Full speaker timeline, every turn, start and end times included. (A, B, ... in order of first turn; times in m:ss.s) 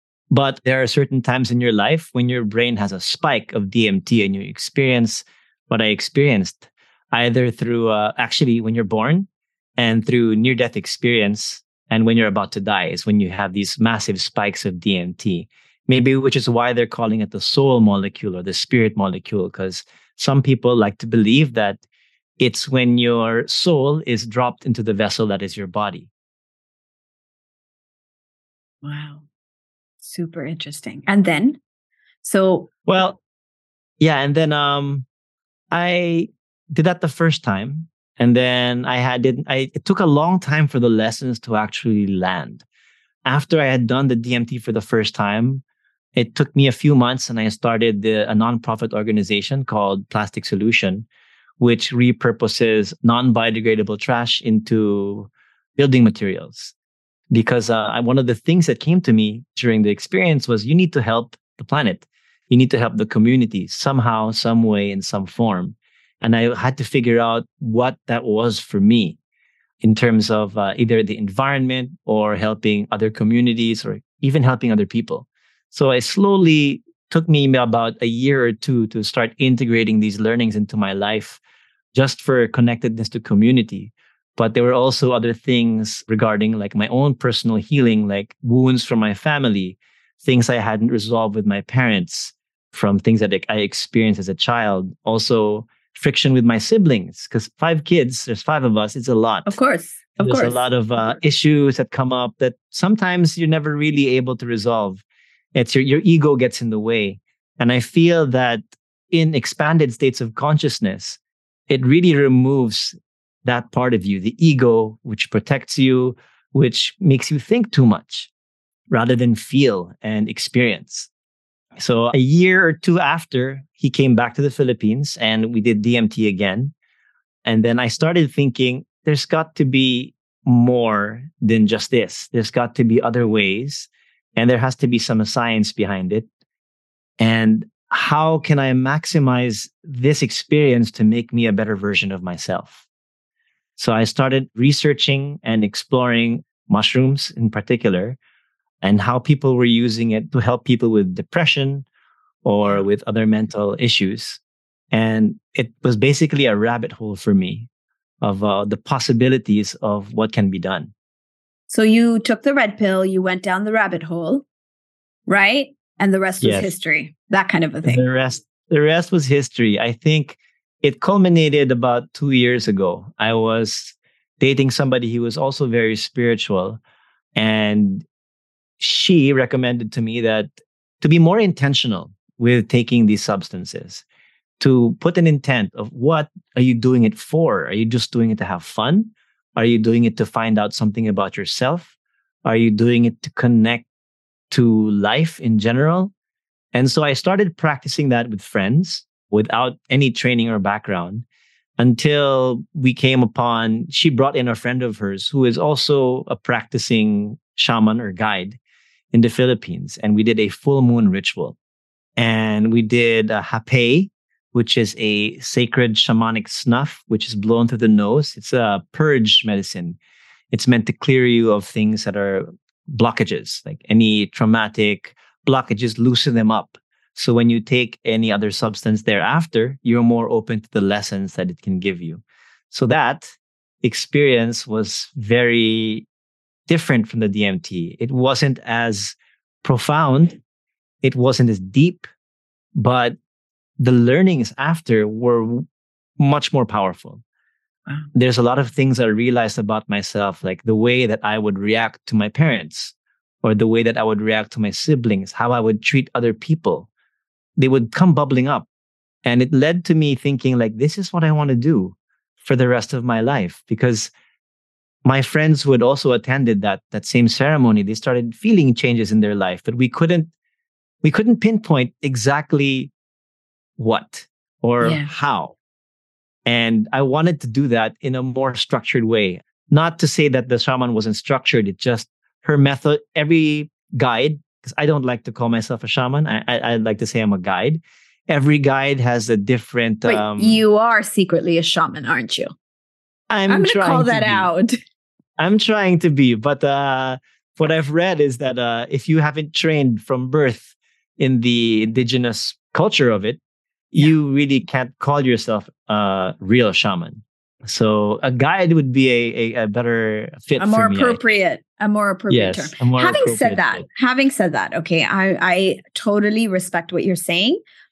0:00.3-0:21.8 A
0:22.4-0:26.1 A
0:28.8-0:29.2 B
0:30.0-0:31.6 B
0:32.2-0:32.7 B
0:32.8-0:33.2 A
0:34.0-0:35.0 A
0:35.7-0:42.6 A
0:43.2-0:45.6 A
0:46.2-0:51.0 A
0:51.6-0:56.7 A
0:57.3-1:09.2 A
1:09.8-1:21.4 A
1:21.9-1:39.5 A
1:39.4-1:40.6 B
1:40.2-1:45.0 A
1:45.5-1:58.3 A
1:58.9-2:01.1 A
2:01.8-2:06.7 A
2:07.4-2:16.2 A
2:17.2-2:22.8 A
2:23.8-2:28.2 A
2:28.8-2:31.8 A
2:32.4-2:34.4 A
2:34.9-2:37.7 A
2:38.2-2:40.9 A
2:41.7-2:44.4 B
2:45.3-2:48.0 B
2:46.4-2:46.7 A
2:47.8-2:56.8 A
2:57.4-2:58.0 A
2:58.8-3:04.0 A
3:04.6-3:11.9 A
3:12.4-3:13.8 A
3:14.5-3:16.1 A
3:16.7-3:21.2 A
3:21.8-3:28.6 A
3:29.1-3:31.6 A
3:32.2-3:40.0 A
3:40.5-3:56.0 A
3:56.7-4:00.4 A
4:01.0-4:02.1 A
4:02.8-4:03.2 A
4:03.8-4:05.6 A
4:06.2-4:07.2 A
4:08.1-4:16.9 A
4:17.6-4:18.6 A
4:19.2-4:24.1 A
4:25.0-4:30.3 A
4:31.0-4:32.9 A
4:33.8-4:35.5 A
4:34.8-4:35.1 B
4:36.4-4:50.6 A
4:50.0-4:52.5 B
4:53.3-4:54.5 A
4:53.5-4:54.8 B
4:55.4-5:03.4 A
5:03.9-5:11.3 A
5:10.6-5:17.6 B
5:12.3-5:13.8 A